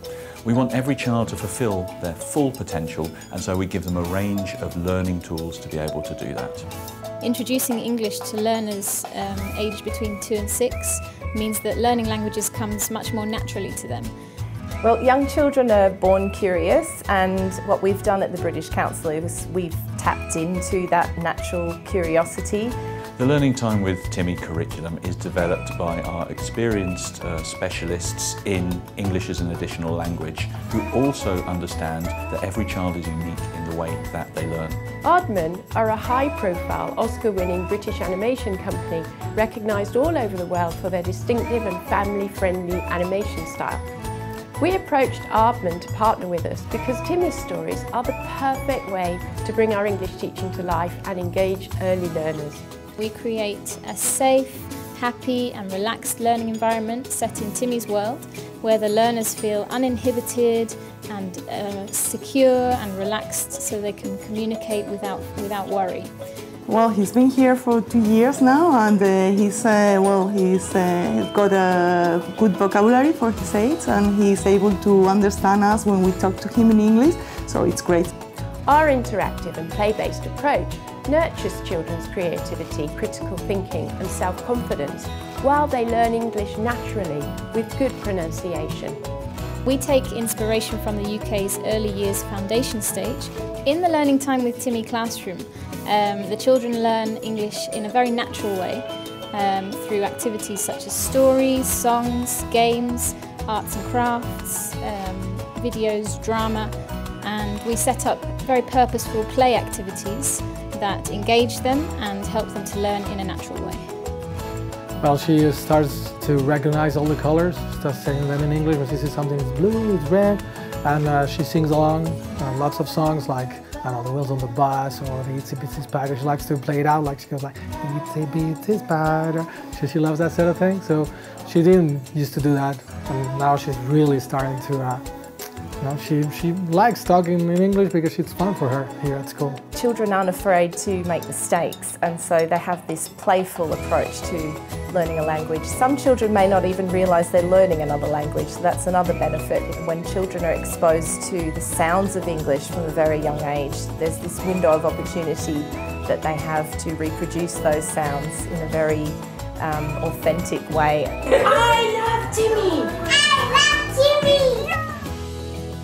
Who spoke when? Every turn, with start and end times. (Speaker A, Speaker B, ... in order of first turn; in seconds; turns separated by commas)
Speaker A: 0.4-6.7, Speaker B: 7.2-14.1, Speaker C: 14.8-22.7, Speaker A: 23.2-34.8, Speaker D: 35.0-43.9, Speaker D: 44.6-52.6, Speaker B: 53.0-66.1, Speaker E: 66.7-78.1, Speaker D: 78.7-89.0, Speaker B: 89.6-113.8, Speaker F: 115.0-135.0, Speaker F: 135.8-139.6, Speaker C: 139.7-161.4, Speaker D: 161.6-163.5, Speaker D: 164.2-164.6